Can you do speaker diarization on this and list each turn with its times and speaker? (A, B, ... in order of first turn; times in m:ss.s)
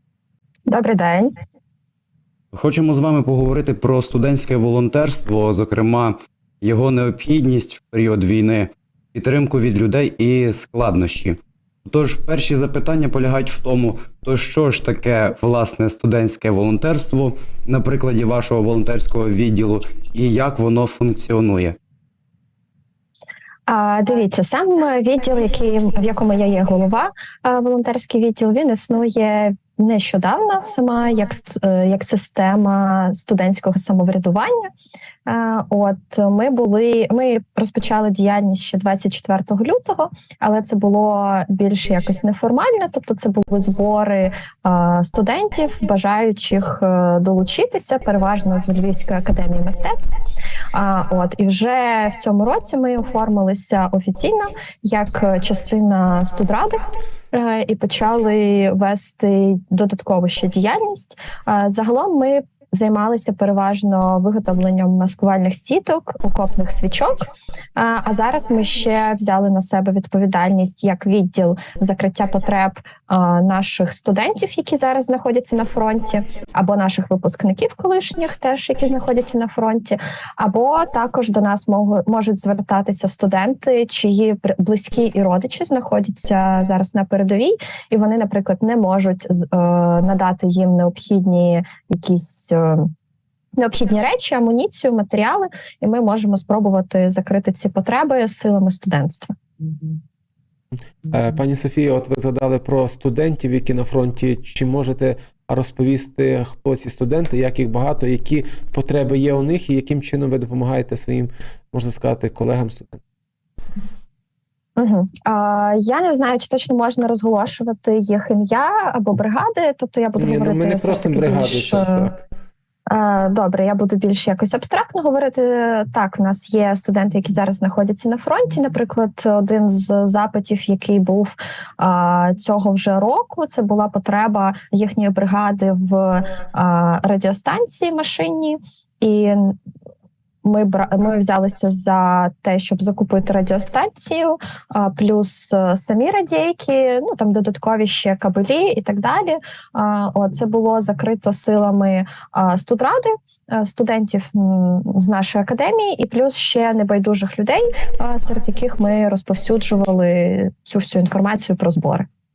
0:00.7-0:01.4 A
0:02.5-0:21.8 B
0:23.7-0:34.7 A
0:35.3-0:50.1 A
0:50.7-1:32.9 A
1:33.6-1:39.4 A
1:41.0-1:53.0 C
1:54.8-2:02.1 A
2:00.2-2:02.2 C
2:02.9-2:19.6 A
2:20.4-2:42.1 A